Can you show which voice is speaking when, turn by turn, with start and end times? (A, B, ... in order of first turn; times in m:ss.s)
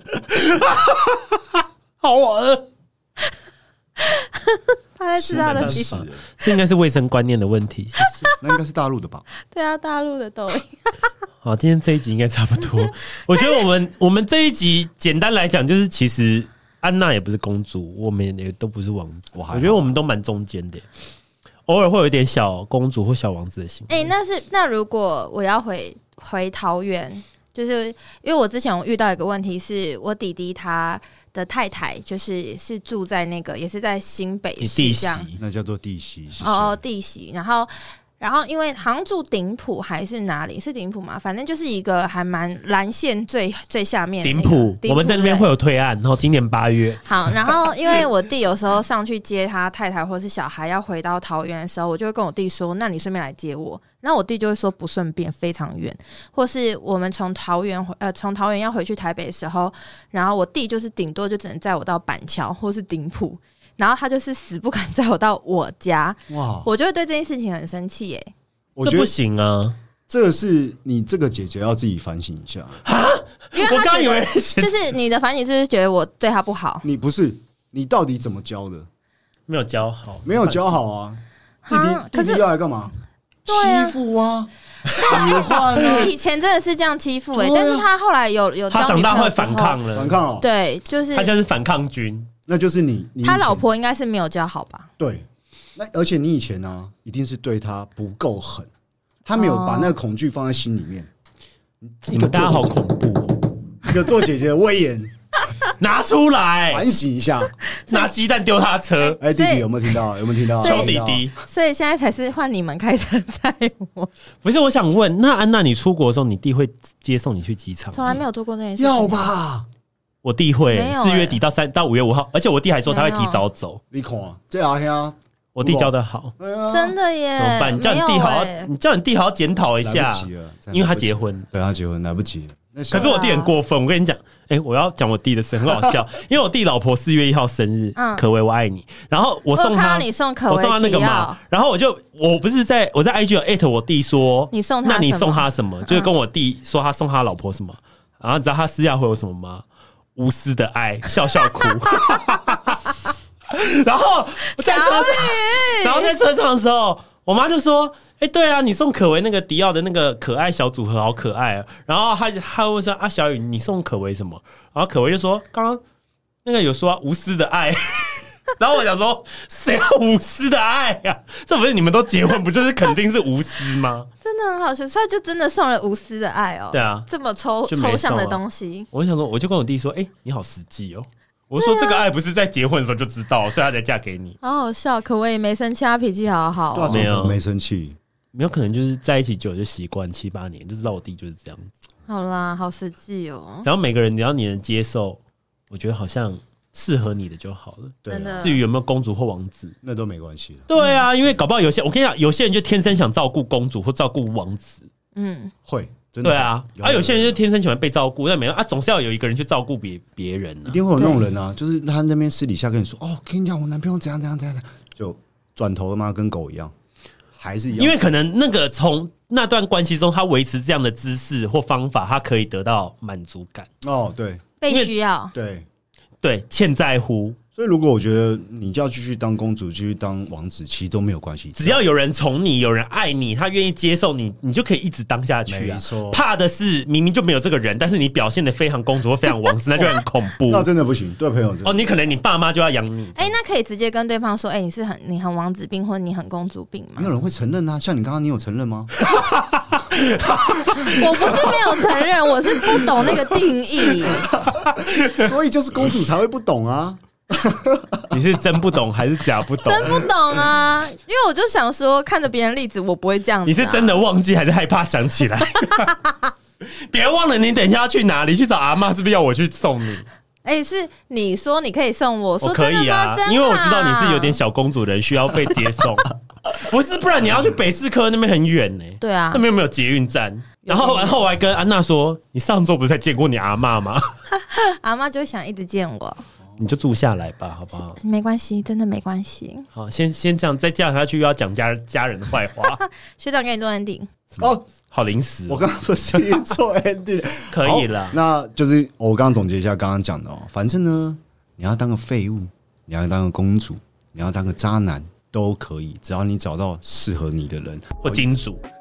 0:00.3-0:02.7 A
0:04.0-0:06.1 B
0:05.2-0:06.2 C
0:05.3-0:08.3 A
0:08.0-0:08.5 B
0:08.4-0:09.3 C
0:09.4-0:10.9 B
0:11.4-0:20.9 A
0:12.8-0:13.6 B
0:19.3-0:20.0 C
0:21.7-0:24.1 A
0:23.9-0:35.3 B
0:34.6-0:35.4 A
0:35.4-0:36.8 C
0:36.4-0:45.5 B
0:44.2-0:47.5 A
0:47.0-1:08.3 B
1:06.3-1:06.7 C
1:08.8-1:09.1 C
1:08.8-1:09.8 A
1:10.1-1:12.8 C
1:12.9-1:14.9 A
1:13.6-1:16.9 B
1:16.8-1:18.9 C
1:19.5-1:20.7 A
1:20.2-1:22.9 C
1:21.7-1:22.5 B
1:23.5-1:26.1 C
1:23.5-1:24.0 B
1:24.9-1:29.8 B
1:24.9-1:26.1 A
1:27.3-1:27.9 C
1:28.7-1:30.2 A
1:29.9-1:30.5 C
1:30.4-1:31.3 B
1:31.1-1:32.3 A
1:32.5-1:33.7 C
1:33.2-1:34.9 B
1:35.0-1:38.7 C
1:39.2-1:41.1 C
1:39.4-1:40.0 B
1:41.8-1:42.8 C
1:42.1-1:43.5 A
1:43.8-1:45.1 C
1:45.7-1:46.9 A
1:46.7-1:47.6 C
1:47.8-1:48.1 B
1:47.9-1:49.2 A
1:49.0-1:49.9 B
1:49.2-1:51.3 C
1:50.6-1:54.1 B
1:50.6-1:51.4 A
1:54.4-1:58.2 A
1:57.9-1:59.3 B
1:58.8-1:59.7 C
2:00.2-2:03.8 A
2:00.7-2:01.4 B
2:02.9-2:03.4 B
2:03.9-2:07.0 C
2:05.6-2:06.3 A
2:06.7-2:08.7 B
2:07.4-2:11.5 A
2:09.8-2:13.2 C
2:12.9-2:13.5 B
2:12.9-2:29.6 A
2:18.0-2:18.2 B
2:19.5-2:21.4 B
2:24.5-2:26.1 B
2:30.2-2:32.9 A
2:33.5-2:45.8 A
2:34.5-2:36.1 B
2:46.4-2:54.1 A
2:54.2-2:58.9 B
2:56.7-2:57.1 A
2:57.7-3:04.4 A
3:01.6-3:02.0 B
3:04.4-3:07.1 B
3:06.7-3:08.0 C
3:06.9-3:07.4 A
3:08.3-3:11.7 A
3:12.1-3:13.7 B
3:13.6-3:19.8 A
3:18.0-3:18.6 C
3:18.1-3:18.6 B
3:19.8-3:20.7 C
3:20.7-3:24.9 A
3:20.8-3:21.1 B
3:25.2-3:25.5 B
3:25.7-3:27.4 C
3:26.2-3:30.8 A
3:30.7-3:36.7 C
3:37.4-3:38.0 C
3:37.8-3:43.7 A
3:43.8-3:44.5 C
3:44.6-3:45.3 B
3:45.3-3:45.7 C
3:46.2-3:47.4 A
3:47.6-3:51.8 C
3:51.6-4:00.7 A
3:55.5-3:56.2 C
4:00.5-4:02.1 C
4:01.6-4:03.3 A
4:03.2-4:07.1 B
4:07.0-4:09.0 C
4:09.1-4:11.0 A
4:10.7-4:14.3 B
4:12.7-4:13.0 A
4:14.1-4:15.3 A
4:14.1-4:18.2 C
4:18.1-4:20.1 A
4:19.6-4:24.0 B
4:23.4-4:26.0 A
4:25.6-4:26.1 B
4:26.6-4:30.1 A
4:30.4-4:34.4 B
4:32.4-4:44.2 A
4:39.0-4:39.4 B
4:40.6-4:41.2 B
4:44.3-4:46.2 B
4:46.6-4:48.0 A
4:48.0-4:49.7 B
4:49.8-4:52.8 A
4:52.8-4:54.1 B
4:54.3-4:55.6 A
4:55.5-5:08.3 C
4:57.5-4:58.2 A
5:08.0-5:08.6 A